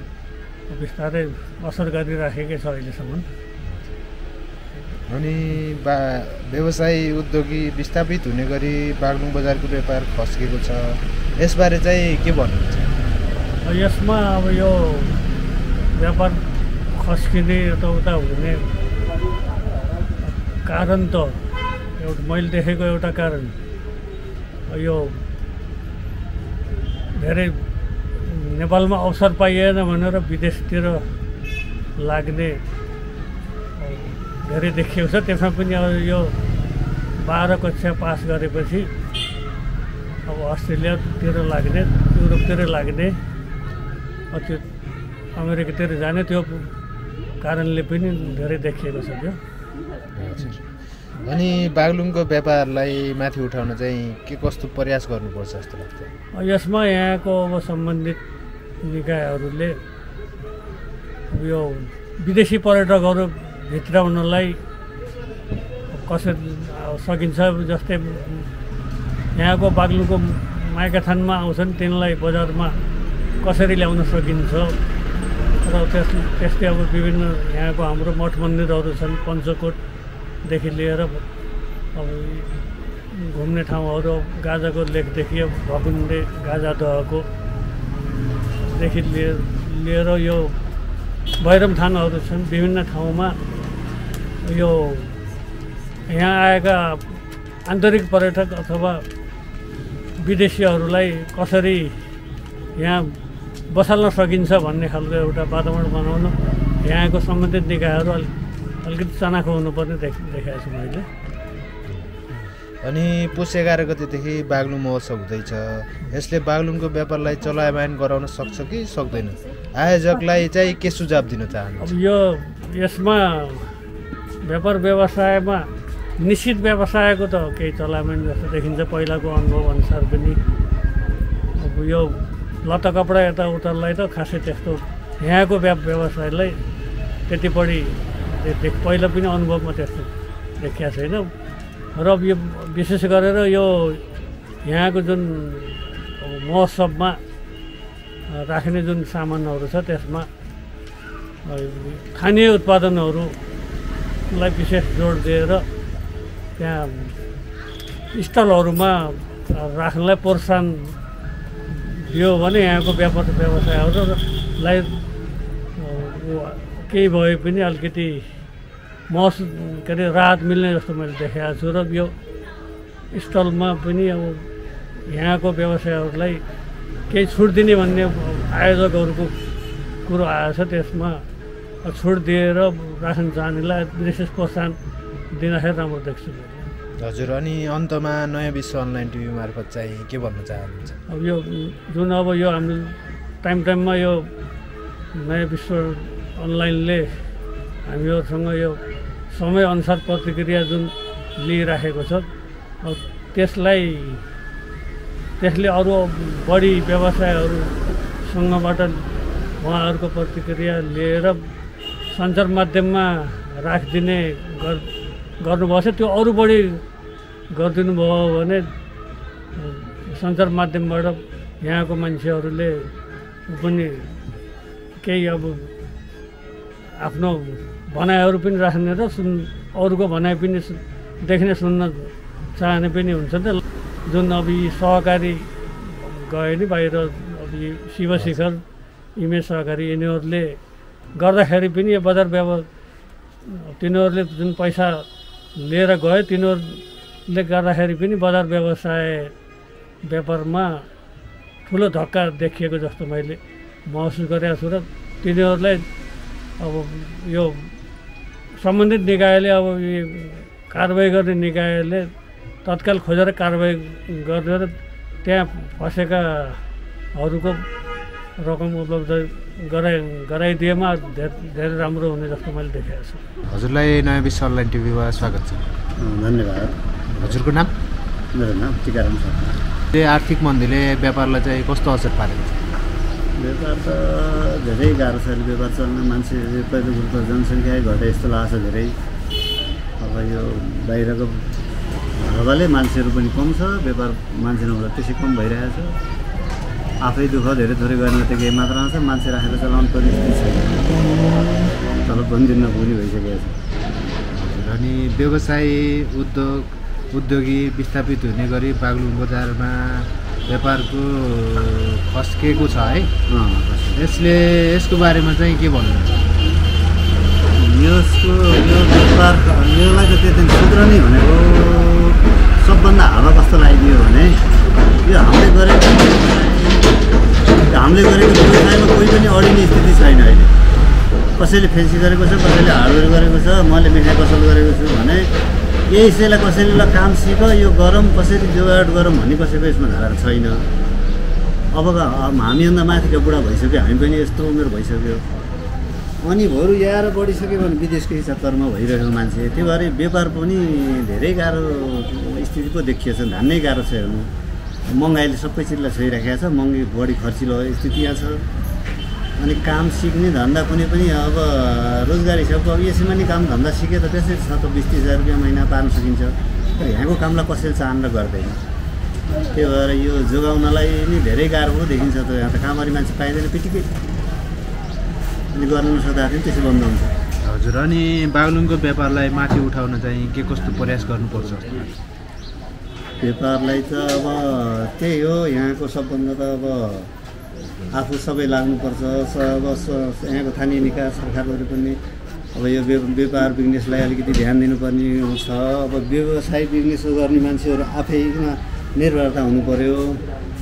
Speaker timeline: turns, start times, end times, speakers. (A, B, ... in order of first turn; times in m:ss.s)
0:00.7-0:03.2 A
0:03.6-0:04.0 B
0:05.1-0:13.0 B
0:13.6-0:15.2 A
0:15.9-0:16.4 A
0:16.9-0:18.7 A
0:20.3-0:21.4 A
0:22.0-0:23.5 A
0:24.7-0:25.2 A
0:27.2-0:27.6 A
0:28.2-0:31.1 A
0:32.0-0:32.6 A
0:33.8-0:36.4 A
0:37.2-0:38.9 A
0:40.3-0:43.2 A
0:44.3-0:44.7 A
0:45.4-0:46.7 A
0:47.4-0:49.4 A
0:50.2-0:50.6 B
0:51.2-0:56.1 B
0:56.4-0:58.2 A
0:58.8-0:59.8 A
1:01.3-1:04.6 A
1:05.9-1:08.5 A
1:09.3-1:12.8 A
1:13.4-1:14.8 A
1:15.6-1:19.8 A
1:20.4-1:21.2 A
1:22.0-1:27.3 A
1:28.6-1:30.6 A
1:31.4-1:33.3 A
1:34.4-1:35.2 A
1:36.1-1:39.0 A
1:40.2-1:42.0 A
1:42.8-1:43.2 A
1:43.7-1:48.3 A
1:48.8-1:51.1 A
1:51.9-1:52.2 B
1:52.8-2:02.0 B
2:01.8-2:03.8 A
2:04.4-2:10.4 A
2:11.6-2:16.6 A
2:17.3-2:21.3 A
2:21.9-2:24.0 A
2:24.6-2:27.2 A
2:28.3-2:30.3 A
2:31.4-2:33.3 A
2:34.3-2:35.7 A
2:36.6-2:37.1 A
2:38.1-2:40.9 A
2:41.7-2:45.0 A
2:45.8-2:48.2 A
2:49.1-2:52.1 A
2:53.1-2:54.4 A
2:55.1-2:56.4 A
2:57.1-2:59.3 A
3:00.0-3:01.2 A
3:01.8-3:04.8 A
3:05.3-3:06.6 A
3:07.0-3:11.0 B
3:11.1-3:14.3 A
3:15.2-3:17.3 A
3:17.8-3:22.3 A
3:22.8-3:24.2 A
3:25.4-3:31.4 A
3:32.1-3:34.9 A
3:35.4-3:36.8 A
3:37.5-3:38.7 A
3:39.6-3:42.9 A
3:43.5-3:44.2 A
3:45.0-3:45.7 A
3:47.0-4:00.6 A
4:01.1-4:02.7 A
4:03.5-4:05.0 A
4:05.6-4:09.3 A
4:10.0-4:10.8 A
4:11.6-4:15.9 A
4:16.6-4:17.7 A
4:18.6-4:22.1 A
4:22.6-4:26.6 A
4:27.2-4:27.6 A
4:28.4-4:33.2 A
4:33.5-4:35.6 B
4:36.0-4:37.4 C
4:37.2-4:37.7 B
4:38.3-4:39.6 C
4:39.9-4:42.7 B
4:43.4-4:49.0 C
4:50.0-4:51.5 C
4:52.1-4:56.0 C
4:57.0-5:00.9 C
5:02.0-5:03.6 C
5:04.3-5:13.1 B
5:13.3-5:14.0 C
5:14.0-5:16.2 B
5:17.6-5:24.4 C
5:25.0-5:26.9 C
5:27.7-5:30.5 C
5:31.4-5:35.3 C
5:35.9-5:40.6 C
5:41.7-5:45.2 C
5:46.2-5:54.3 C
5:54.9-5:58.4 C
5:59.4-6:08.6 C
6:09.5-6:13.9 C
6:15.5-6:17.1 C
6:17.4-6:22.0 B
6:23.2-6:27.1 C
6:27.9-6:32.0 C
6:32.5-6:40.2 C